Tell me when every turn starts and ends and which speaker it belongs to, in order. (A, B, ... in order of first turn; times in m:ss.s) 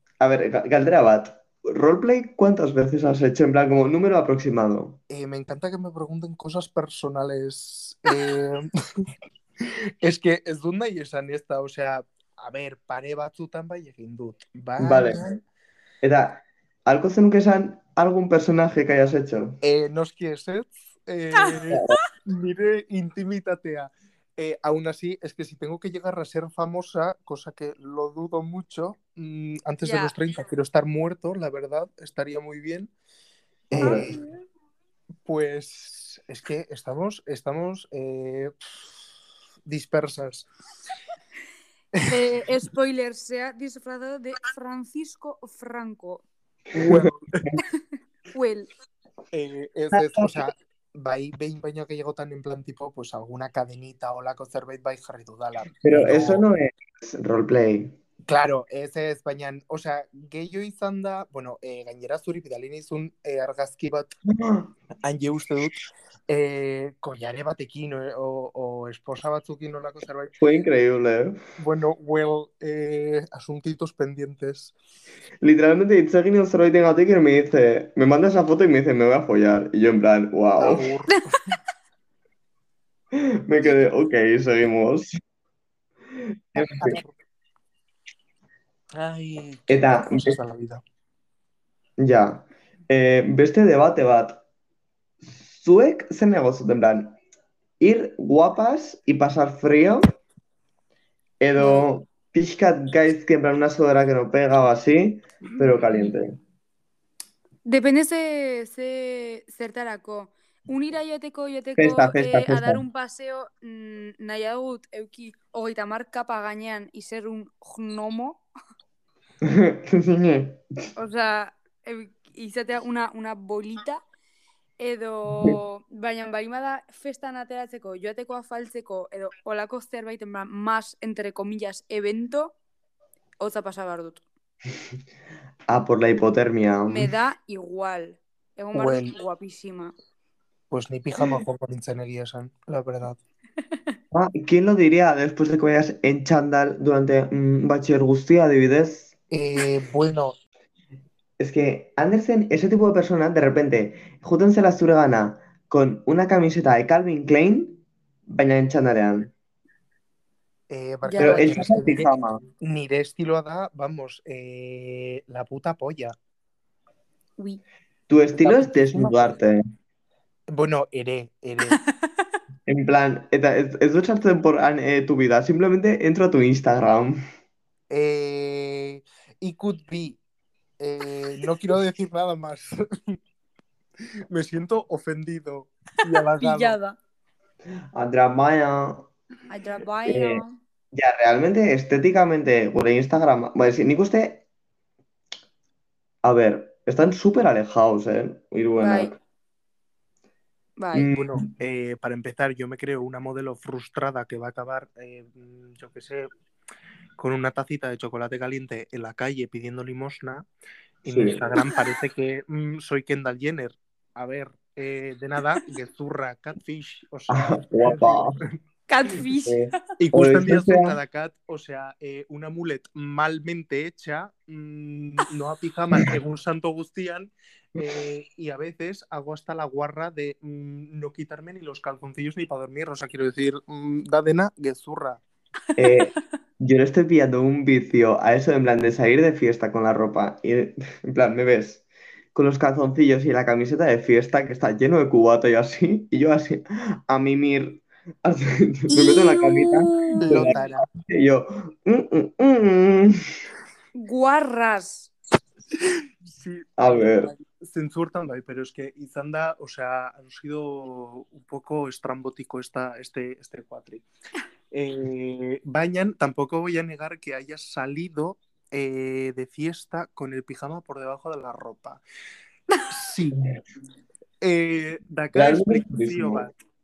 0:00.2-0:05.0 A
0:05.1-0:09.1 B
0:09.6-0:15.4 B
0:14.8-0:15.2 A
0:16.0-0:19.6 A
0:19.6-0:32.9 B
0:21.4-0:22.0 C
0:21.7-0:22.0 A
0:29.8-0:30.1 C
0:33.7-0:34.1 A
0:33.8-0:34.2 B
0:33.8-0:34.4 C
0:35.2-0:38.8 B
0:39.7-0:40.5 B
0:42.1-0:46.2 C
0:46.8-0:47.5 B
0:46.8-0:47.6 A
0:48.3-0:48.7 C
0:49.3-0:56.4 B
0:49.9-0:50.5 A
0:55.8-0:58.0 A
0:58.3-1:04.1 B
1:04.4-1:04.7 A
1:05.0-1:10.3 B
1:10.4-1:11.4 A
1:11.6-1:14.8 B
1:15.4-1:20.9 A
1:20.6-1:21.5 B
1:23.1-1:25.2 A
1:26.5-1:27.0 A
1:26.6-1:27.1 B
1:29.0-1:30.8 B
1:29.7-1:30.4 A
1:32.0-1:34.4 A
1:35.2-1:37.2 A
1:37.8-1:40.2 A
1:41.4-1:46.4 A
1:41.6-1:41.9 C
1:45.5-1:46.1 C
1:47.6-1:58.4 C
1:51.8-1:52.8 A
1:59.4-2:00.6 A
2:01.0-2:04.0 C
2:04.8-2:12.6 C
2:13.4-2:14.2 C
2:15.7-2:17.1 A
2:16.9-2:19.9 C
2:18.7-2:19.1 B
2:20.7-2:23.2 B
2:24.1-2:29.2 A
2:29.3-2:30.4 B
2:31.4-2:39.3 A
2:40.7-2:46.2 B
2:41.0-2:41.7 C
2:41.2-2:42.4 A
2:48.1-2:49.6 A
2:48.4-2:49.3 B
2:50.5-2:51.8 B
2:52.7-2:57.2 A
2:57.9-3:00.2 B
3:00.8-3:03.2 B
3:04.3-3:06.8 B
3:06.3-3:07.0 C
3:07.9-3:09.1 A
3:09.5-3:10.6 C
3:10.1-3:14.4 A
3:16.2-3:19.2 A
3:18.8-3:19.1 C
3:20.8-3:21.1 C
3:20.9-3:21.3 A
3:21.1-3:26.3 B
3:27.2-3:30.5 B
3:31.0-3:38.4 B
3:31.1-3:31.5 A
3:31.6-3:31.9 C
3:37.3-3:38.4 A
3:38.9-3:39.7 C
3:39.4-3:41.0 A
3:40.0-3:55.2 B
3:55.8-4:01.8 A
3:55.9-3:56.2 C
4:02.4-4:13.2 A
4:08.9-4:10.6 C
4:10.2-4:10.8 B
4:14.0-4:15.1 C
4:15.8-4:24.0 B
4:16.8-4:17.3 A
4:24.7-4:32.0 B
4:32.9-4:33.4 B
4:34.4-4:36.5 B
4:35.4-4:36.5 A